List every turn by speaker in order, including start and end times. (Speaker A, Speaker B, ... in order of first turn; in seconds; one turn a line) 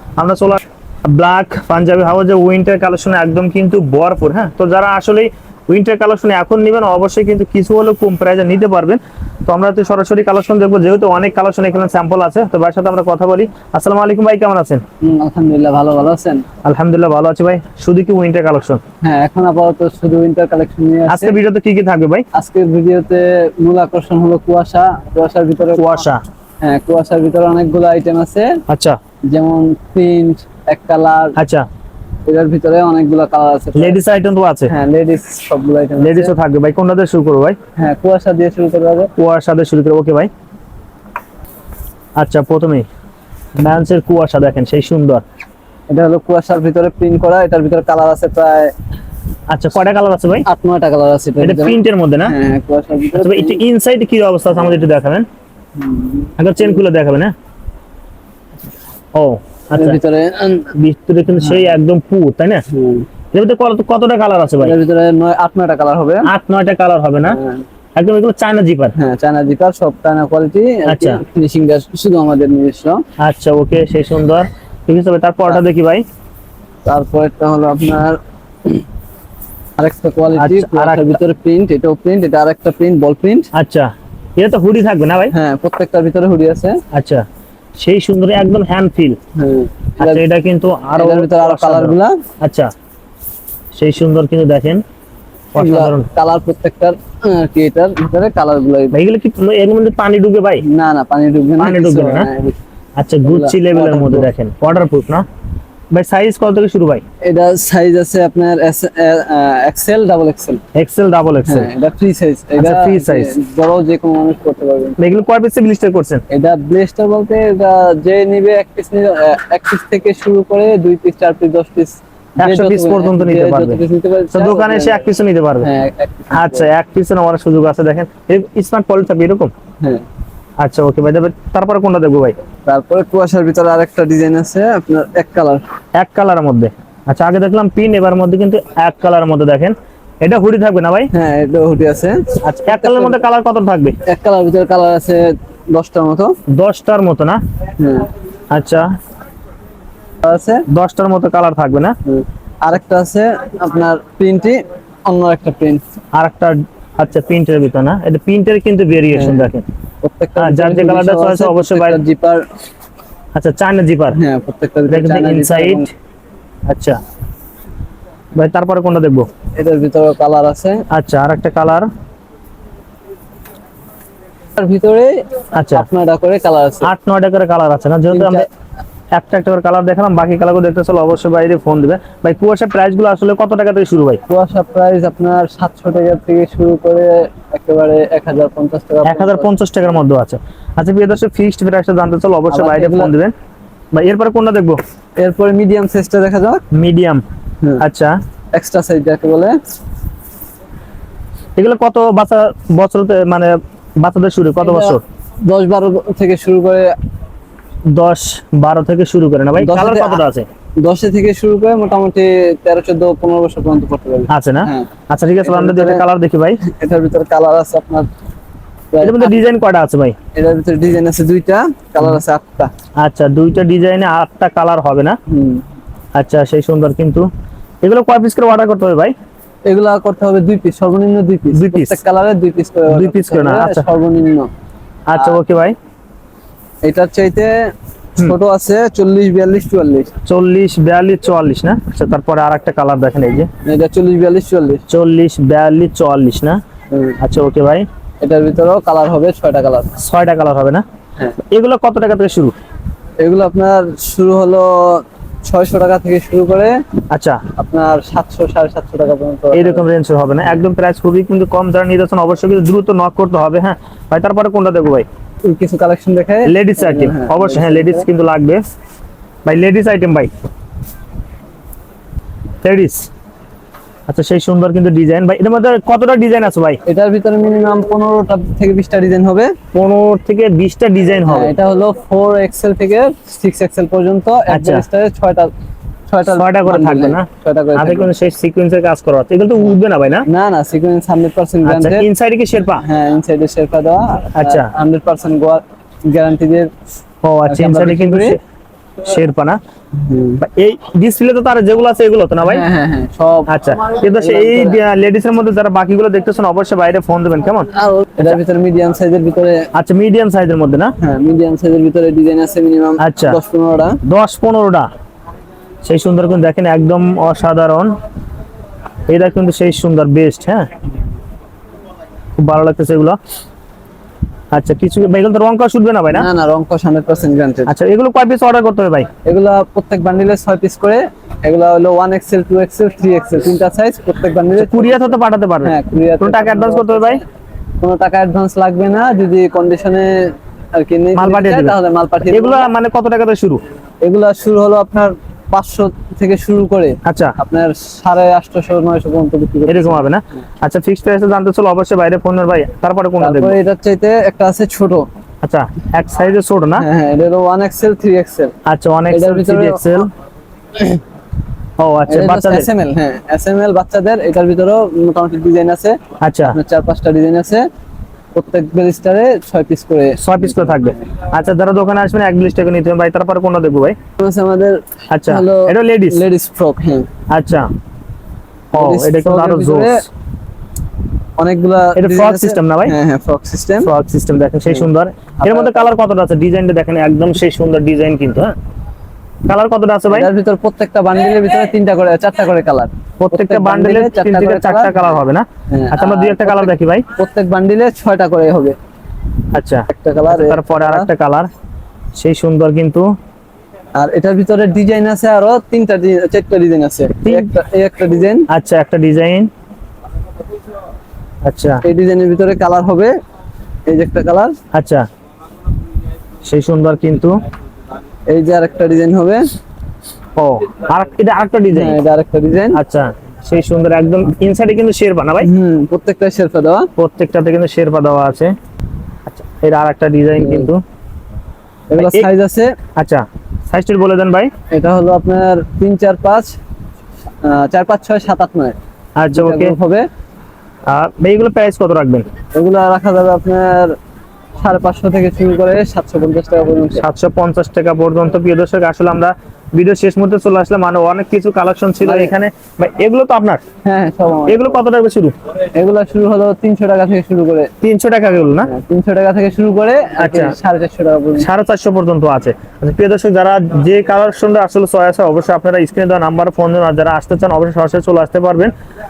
Speaker A: 0.2-14.8
Speaker B: 15.0-16.5
Speaker A: 16.6-18.8
Speaker B: 19.0-21.4
Speaker A: 21.1-22.2
Speaker B: 22.3-26.1
Speaker A: 25.8-26.2
Speaker B: 26.6-28.6
Speaker A: 28.7-29.0
Speaker B: 29.3-31.4
Speaker A: 31.4-31.7
Speaker B: 32.3-34.0
Speaker A: 33.8-34.7
Speaker B: 34.7-36.3
Speaker A: 36.0-37.6
Speaker B: 37.8-39.1
Speaker A: 39.2-40.3
Speaker A: 42.2-42.9
Speaker A: 43.6-45.2
Speaker B: 45.9-48.7
Speaker A: 49.5-50.5
Speaker B: 50.5-53.6
Speaker A: 51.4-52.3
Speaker A: 53.2-55.3
Speaker B: 54.6-54.8
Speaker B: 55.8-56.8
Speaker A: 56.4-57.3
Speaker A: 59.1-60.0
Speaker B: 59.7-60.7
Speaker A: 60.8-62.6
Speaker B: 61.4-61.7
Speaker B: 62.7-63.1
Speaker A: 63.3-64.8
Speaker B: 64.6-66.3
Speaker A: 66.3-67.4
Speaker B: 67.3-67.6
Speaker A: 68.0-68.9
Speaker B: 69.0-73.0
Speaker A: 70.9-71.2
Speaker A: 73.2-76.0
Speaker B: 76.8-78.8
Speaker B: 79.8-83.5
Speaker A: 80.3-81.2
Speaker A: 83.5-85.3
Speaker B: 85.3-86.8
Speaker A: 86.9-87.2
Speaker A: 87.8-89.2
Speaker B: 89.4-90.2
Speaker A: 90.0-92.7
Speaker B: 91.0-92.2
Speaker A: 93.8-94.8
Speaker A: 95.5-96.1
Speaker B: 95.6-98.9
Speaker A: 98.9-100.6
Speaker B: 100.6-102.6
Speaker A: 101.6-102.3
Speaker A: 103.0-105.2
Speaker B: 103.3-104.3
Speaker A: 105.9-107.0
Speaker B: 107.2-110.6
Speaker A: 110.8-111.7
Speaker B: 111.5-115.0
Speaker A: 112.6-113.3
Speaker A: 115.0-116.2
Speaker B: 116.3-125.0
Speaker A: 122.4-123.8
Speaker A: 124.3-125.7
Speaker B: 125.6-126.7
Speaker A: 126.3-129.5
Speaker A: 130.6-132.4
Speaker B: 132.7-135.6
Speaker A: 136.0-141.1
Speaker B: 141.1-143.2
Speaker A: 142.4-144.0
Speaker B: 144.1-146.3
Speaker A: 146.5-147.4
Speaker B: 147.8-148.1
Speaker A: 148.5-148.9
Speaker B: 150.2-150.7
Speaker A: 150.7-151.9
Speaker B: 152.1-155.8
Speaker A: 156.2-159.6
Speaker B: 159.1-159.5
Speaker B: 160.0-162.4
Speaker A: 160.4-162.0
Speaker A: 163.3-164.2
Speaker B: 164.1-165.9
Speaker A: 164.9-165.9
Speaker A: 166.7-167.0
Speaker A: 168.4-169.3
Speaker B: 169.6-170.8
Speaker A: 170.9-171.9
Speaker B: 174.6-176.9
Speaker A: 175.6-175.9
Speaker A: 176.8-178.5
Speaker B: 178.1-178.5
Speaker A: 179.1-184.2
Speaker B: 184.3-189.5
Speaker A: 189.1-193.3
Speaker B: 192.5-193.1
Speaker A: 193.9-194.8
Speaker B: 195.2-196.6
Speaker A: 196.7-197.2
Speaker A: 197.8-198.1
Speaker B: 198.5-199.6
Speaker A: 201.6-205.0
Speaker B: 204.6-206.9
Speaker A: 207.9-210.5
Speaker B: 209.6-210.2
Speaker B: 210.8-214.9
Speaker A: 214.3-216.6
Speaker B: 215.4-216.0
Speaker B: 216.6-218.1
Speaker B: 218.9-219.5
Speaker A: 219.0-220.2
Speaker B: 220.3-222.7
Speaker A: 223.0-225.2
Speaker B: 225.3-225.7
Speaker A: 226.2-227.3
Speaker A: 227.8-229.1
Speaker B: 229.7-234.5
Speaker A: 231.5-232.0
Speaker A: 232.9-233.9
Speaker A: 235.1-235.8
Speaker B: 235.1-235.4
Speaker B: 236.8-240.1
Speaker A: 240.3-243.5
Speaker B: 243.7-244.8
Speaker A: 244.9-246.6
Speaker B: 246.9-247.2
Speaker A: 247.2-247.9
Speaker B: 248.2-249.9
Speaker A: 250.0-250.8
Speaker A: 251.5-252.5
Speaker B: 253.2-256.8
Speaker A: 257.1-257.4
Speaker B: 257.6-259.9
Speaker A: 259.5-265.1
Speaker B: 265.4-268.1
Speaker A: 266.5-268.6
Speaker A: 269.4-270.3
Speaker A: 272.6-273.1
Speaker A: 274.1-276.8
Speaker B: 276.9-279.6
Speaker A: 279.7-281.5
Speaker B: 281.3-285.5
Speaker A: 284.5-284.9
Speaker B: 286.1-288.1
Speaker A: 286.3-290.3
Speaker B: 290.3-292.1
Speaker A: 291.6-292.8
Speaker B: 292.8-296.7
Speaker A: 294.4-294.7
Speaker A: 297.2-298.4
Speaker B: 297.5-298.4
Speaker A: 299.0-299.6
Speaker B: 299.9-300.4
Speaker A: 300.4-302.7
Speaker B: 302.4-304.8
Speaker A: 303.5-307.7
Speaker B: 307.8-309.7
Speaker A: 309.8-310.9
Speaker B: 311.0-314.0
Speaker A: 313.0-313.4
Speaker A: 314.1-314.9
Speaker A: 315.8-317.9
Speaker A: 319.1-320.6
Speaker A: 322.4-323.2
Speaker A: 324.5-326.3
Speaker B: 326.1-327.7
Speaker A: 327.7-329.1
Speaker B: 329.2-337.2
Speaker A: 334.6-337.2
Speaker B: 337.8-342.7
Speaker A: 341.1-341.8
Speaker A: 342.3-343.6
Speaker B: 344.0-350.1
Speaker A: 347.1-347.4
Speaker A: 349.7-353.6
Speaker B: 353.2-355.1
Speaker A: 355.4-356.9
Speaker B: 356.8-358.5
Speaker A: 358.7-360.1
Speaker B: 359.1-360.0
Speaker A: 361.8-362.7
Speaker B: 362.1-367.7
Speaker A: 366.2-366.6
Speaker B: 368.4-370.9
Speaker A: 370.2-374.0
Speaker B: 374.2-377.1
Speaker A: 375.1-376.2
Speaker A: 377.3-377.7
Speaker A: 378.7-379.9
Speaker B: 378.8-380.0
Speaker B: 381.4-383.9
Speaker A: 382.0-382.9
Speaker A: 383.8-388.5
Speaker B: 385.4-385.9
Speaker A: 389.5-390.3
Speaker B: 390.1-394.9
Speaker A: 393.2-397.0
Speaker B: 395.7-398.8
Speaker A: 399.5-401.5
Speaker B: 399.9-401.1
Speaker A: 402.2-403.1
Speaker B: 404.0-408.5
Speaker A: 407.2-407.5
Speaker A: 408.5-409.5
Speaker A: 411.4-411.8
Speaker B: 411.8-413.1
Speaker B: 413.9-414.5
Speaker A: 414.7-415.1
Speaker A: 416.4-417.4
Speaker B: 418.3-419.5
Speaker A: 420.4-422.0
Speaker B: 421.7-422.8
Speaker A: 422.7-425.5
Speaker B: 425.4-426.9
Speaker A: 427.0-428.5
Speaker A: 429.3-430.8
Speaker B: 430.4-430.7
Speaker B: 431.9-432.8
Speaker A: 432.0-432.3
Speaker A: 433.0-434.5
Speaker B: 434.7-436.5
Speaker B: 437.4-438.8
Speaker A: 439.2-439.7
Speaker B: 439.3-440.1
Speaker A: 440.9-442.3
Speaker B: 442.6-444.0
Speaker B: 444.6-447.0
Speaker A: 447.0-453.6
Speaker B: 452.0-452.3
Speaker B: 453.9-454.8
Speaker A: 454.5-455.4
Speaker B: 455.7-457.7
Speaker A: 457.8-458.7
Speaker B: 458.6-461.5
Speaker A: 460.2-460.5
Speaker A: 461.4-468.7